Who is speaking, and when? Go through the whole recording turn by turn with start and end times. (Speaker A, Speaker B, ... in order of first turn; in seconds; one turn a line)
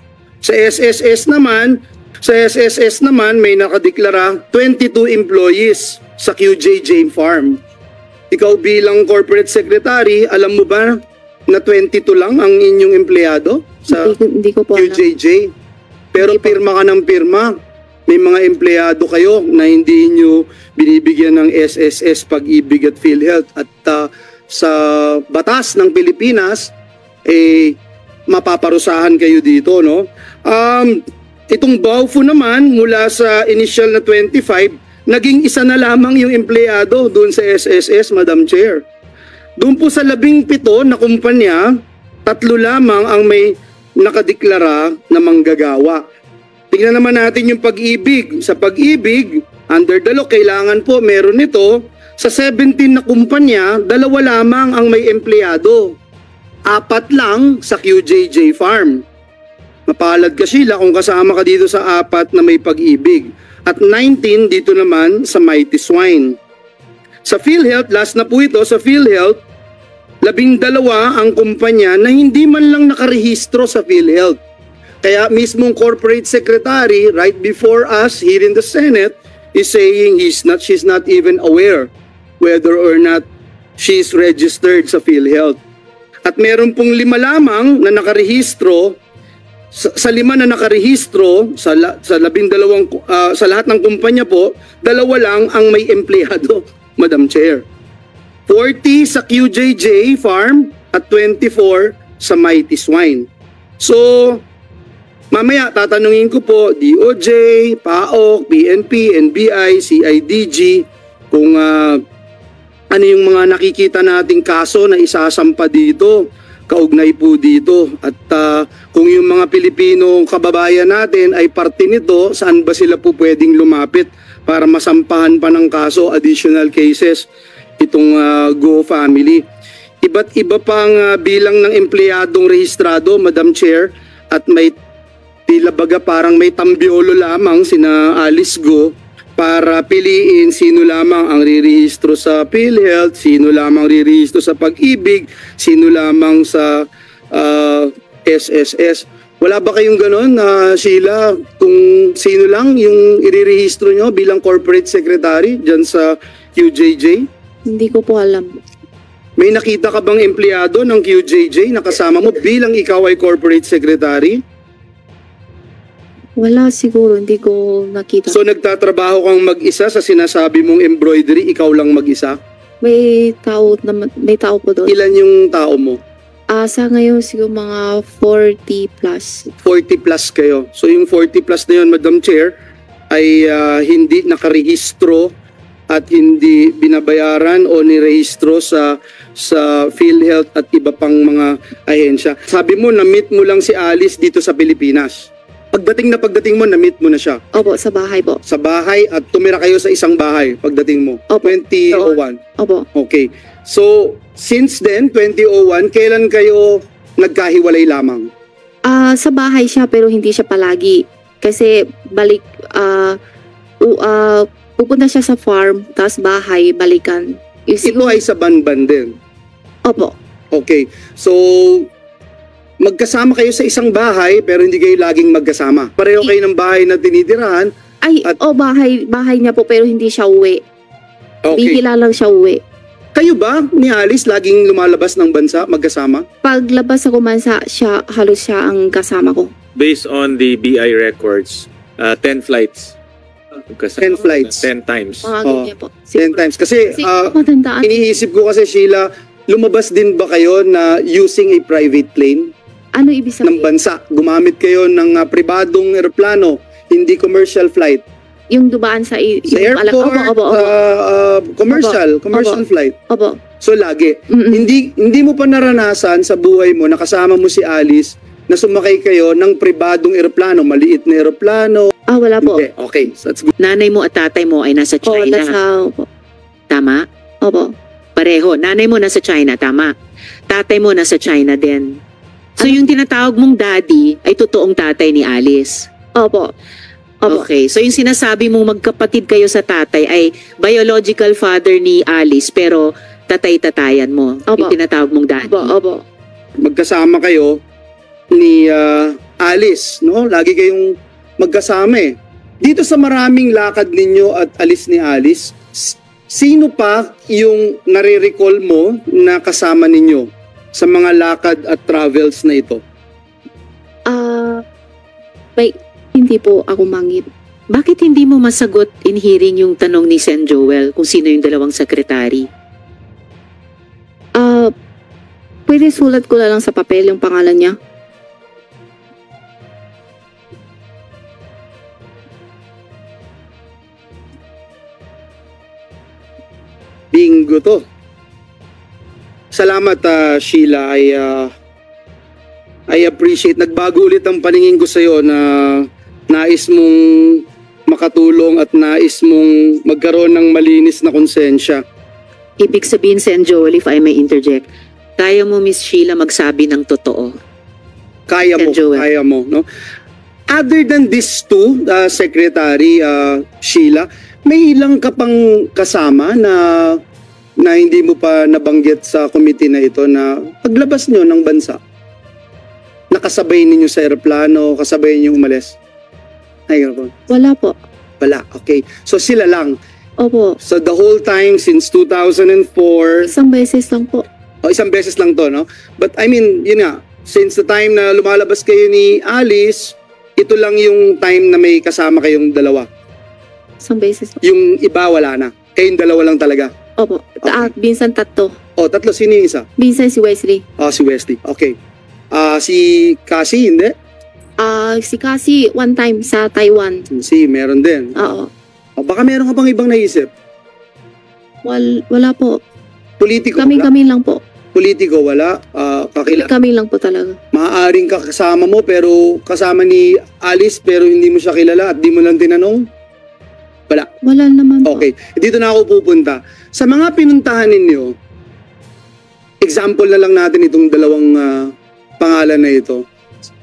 Speaker A: 0.4-7.6
Speaker A: 8.3-14.1
Speaker B: 13.9-15.0
Speaker A: 14.7-15.5
Speaker A: 16.1-17.5
Speaker B: 16.2-16.6
Speaker A: 18.1-26.7
Speaker A: 27.3-38.8
Speaker A: 39.6-41.7
Speaker A: 42.2-46.0
Speaker A: 46.7-56.0
Speaker A: 56.7-59.0
Speaker A: 59.9-66.4
Speaker A: 67.2-69.4
Speaker A: 70.2-74.4
Speaker A: 75.0-81.9
Speaker A: 82.4-83.2
Speaker A: 83.8-85.6
Speaker A: 86.2-89.0
Speaker A: 89.7-97.6
Speaker A: 98.5-103.3
Speaker A: 103.8-104.4
Speaker A: 105.3-112.0
Speaker A: 112.9-127.3
Speaker A: 127.8-129.4
Speaker A: 130.0-134.7
Speaker A: 135.5-157.3
Speaker B: 157.7-158.5
Speaker A: 159.4-164.4
Speaker B: 166.4-168.3
Speaker A: 168.3-172.4
Speaker B: 172.8-174.9
Speaker A: 174.9-176.0
Speaker B: 176.5-179.4
Speaker A: 179.6-182.6
Speaker A: 183.1-185.3
Speaker A: 185.9-197.4
Speaker B: 197.5-198.4
Speaker A: 198.4-202.4
Speaker B: 201.3-202.8
Speaker A: 202.9-208.3
Speaker B: 208.8-213.2
Speaker B: 213.8-218.2
Speaker A: 217.8-219.1
Speaker B: 219.8-220.1
Speaker A: 220.5-221.9
Speaker A: 222.8-227.7
Speaker B: 228.0-230.6
Speaker A: 231.4-231.8
Speaker B: 231.5-232.6
Speaker A: 233.1-236.2
Speaker B: 236.4-239.5
Speaker C: 239.8-242.9
Speaker C: 243.7-245.3
Speaker A: 244.0-244.7
Speaker B: 245.2-246.4
Speaker A: 245.4-252.5
Speaker B: 247.0-248.0
Speaker B: 252.9-253.7
Speaker A: 253.4-258.0
Speaker B: 258.5-260.7
Speaker A: 259.5-262.9
Speaker B: 261.7-263.4
Speaker A: 263.6-273.5
Speaker B: 264.3-264.6
Speaker B: 272.1-272.6
Speaker D: 273.6-275.6
Speaker B: 275.1-276.1
Speaker D: 276.7-277.1
Speaker B: 277.4-277.7
Speaker D: 278.1-279.9
Speaker D: 280.5-282.0
Speaker D: 282.6-285.9
Speaker B: 286.1-286.5
Speaker B: 287.2-287.4
Speaker D: 287.3-295.7
Speaker B: 294.5-294.8
Speaker B: 295.4-296.0
Speaker A: 296.6-297.6
Speaker A: 298.3-312.8
Speaker B: 314.1-314.6
Speaker B: 315.6-317.3
Speaker D: 317.7-322.5
Speaker B: 324.4-324.7
Speaker B: 325.7-327.8
Speaker A: 337.1-337.9
Speaker A: 339.5-341.5
Speaker A: 342.9-351.8
Speaker D: 352.6-354.6
Speaker D: 355.2-357.4
Speaker A: 358.3-359.6
Speaker D: 358.5-359.1
Speaker A: 360.5-367.0
Speaker A: 367.6-371.8
Speaker A: 373.1-375.8
Speaker A: 376.7-377.1
Speaker B: 377.3-377.8
Speaker A: 378.2-379.8
Speaker B: 380.2-380.6
Speaker A: 380.6-383.3
Speaker B: 383.3-384.2
Speaker A: 384.6-392.9
Speaker B: 393.8-394.4
Speaker A: 394.4-396.7
Speaker B: 397.0-398.5
Speaker A: 397.4-397.7
Speaker A: 398.8-399.6
Speaker B: 399.8-400.6
Speaker A: 400.8-401.8
Speaker A: 402.3-403.9
Speaker B: 404.6-407.1
Speaker A: 407.1-408.1
Speaker B: 408.1-408.5
Speaker A: 409.0-410.3
Speaker B: 411.6-412.6
Speaker A: 413.2-413.9
Speaker B: 413.6-414.4
Speaker A: 414.7-416.5
Speaker B: 416.3-417.4
Speaker A: 417.5-422.9
Speaker B: 424.2-425.1
Speaker A: 424.8-428.1
Speaker A: 429.6-433.1